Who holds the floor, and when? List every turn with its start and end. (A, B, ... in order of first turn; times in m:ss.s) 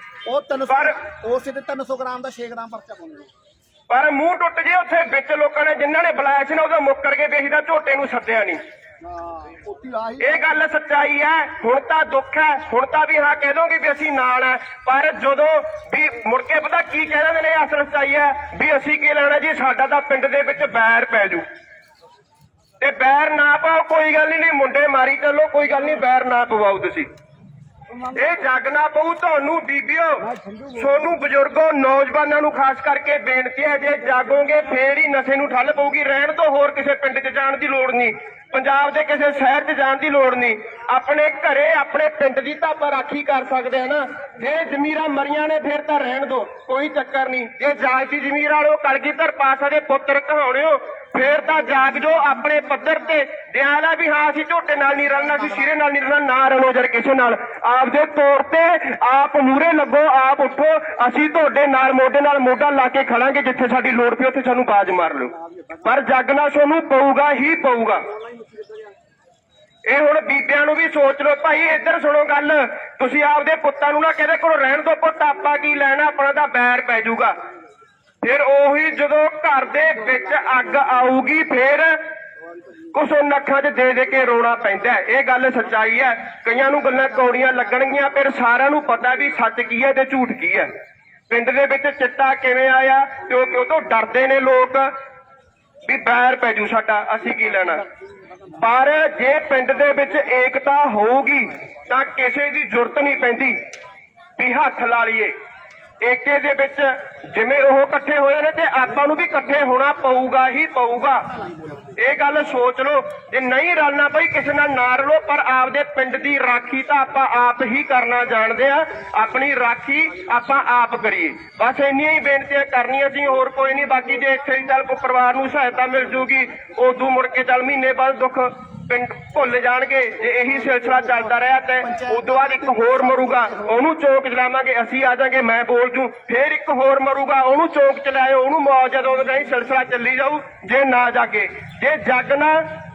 0:00.2-0:03.3 A
0:00.7-0:01.0 B
0:03.9-0:08.6 B
0:09.0-0:10.3 A
0:10.2-0:21.4 B
0:22.8-0:27.1 B
0:28.0-1:08.1 B
0:30.4-0:30.7 A
1:08.4-1:08.8 A
1:09.9-1:17.3 B
1:18.2-1:22.0 B
1:22.9-1:30.7 B
1:31.3-1:34.9 B
1:35.8-1:37.8 B
1:38.5-1:43.6 B
1:44.4-1:45.3 B
1:46.0-1:51.3 B
1:52.0-2:22.6 B